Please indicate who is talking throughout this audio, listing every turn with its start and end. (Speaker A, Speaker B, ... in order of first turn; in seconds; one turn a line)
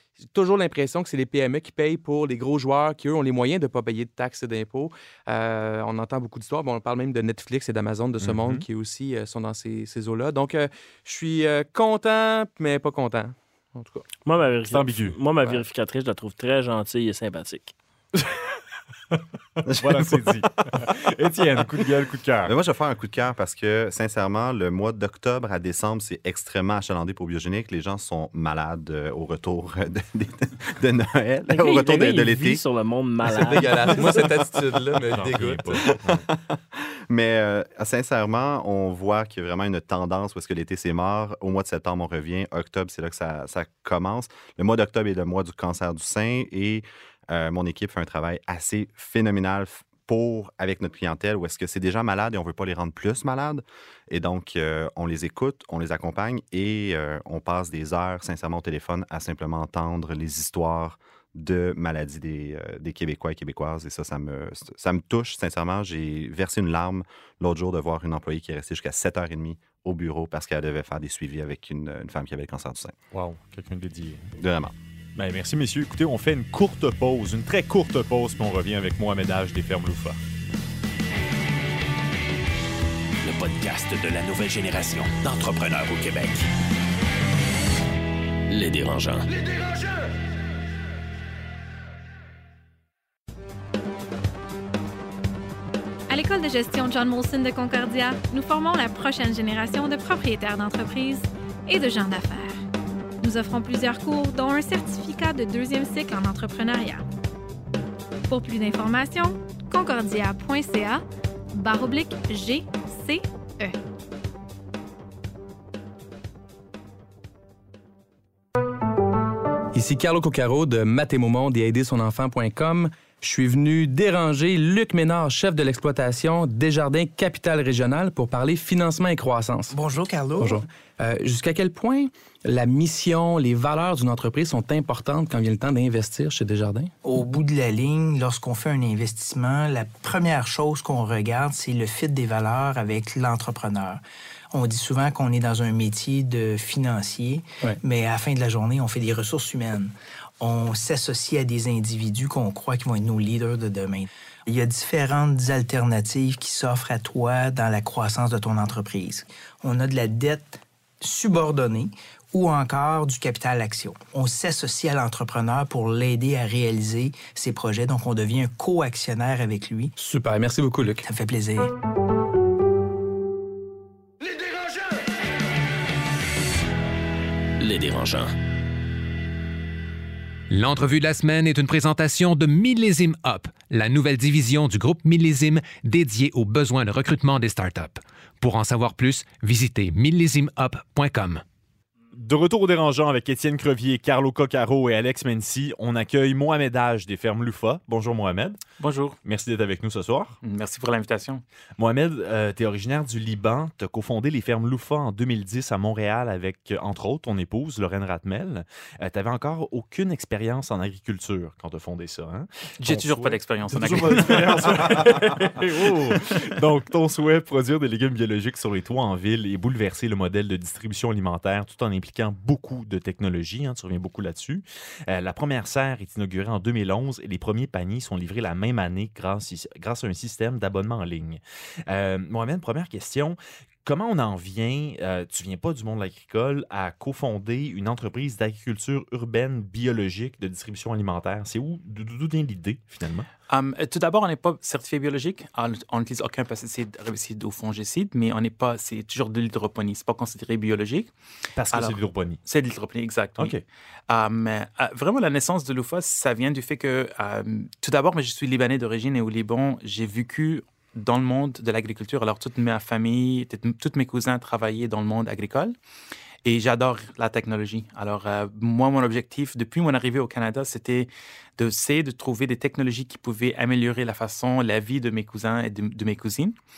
Speaker A: 0.2-14.1
Speaker B: 8.2-8.7
Speaker C: 14.2-17.7
Speaker B: 14.7-15.2
Speaker B: 19.1-22.5
Speaker D: 19.7-20.4
Speaker D: 22.4-32.6
Speaker C: 31.5-34.3
Speaker A: 33.2-35.9
Speaker B: 35.1-36.2
Speaker D: 36.0-73.0
Speaker B: 73.1-74.3
Speaker D: 74.4-74.8
Speaker B: 75.2-80.2
Speaker E: 83.2-86.5
Speaker E: 88.5-89.3
Speaker F: 96.1-102.6
Speaker F: 103.2-107.0
Speaker F: 108.3-111.0
Speaker F: 111.5-113.8
Speaker A: 119.7-129.8
Speaker G: 129.7-130.7
Speaker A: 130.4-136.9
Speaker G: 137.0-169.9
Speaker A: 170.0-171.1
Speaker G: 171.1-171.7
Speaker E: 177.6-178.3
Speaker H: 180.5-191.4
Speaker B: 192.2-198.6
Speaker I: 198.8-199.2
Speaker B: 199.2-200.4
Speaker I: 200.4-201.4
Speaker B: 201.8-243.3
Speaker I: 212.8-215.7
Speaker I: 243.5-251.1
Speaker B: 251.6-252.4
Speaker I: 251.7-253.6
Speaker I: 254.1-265.8
Speaker I: 266.4-276.6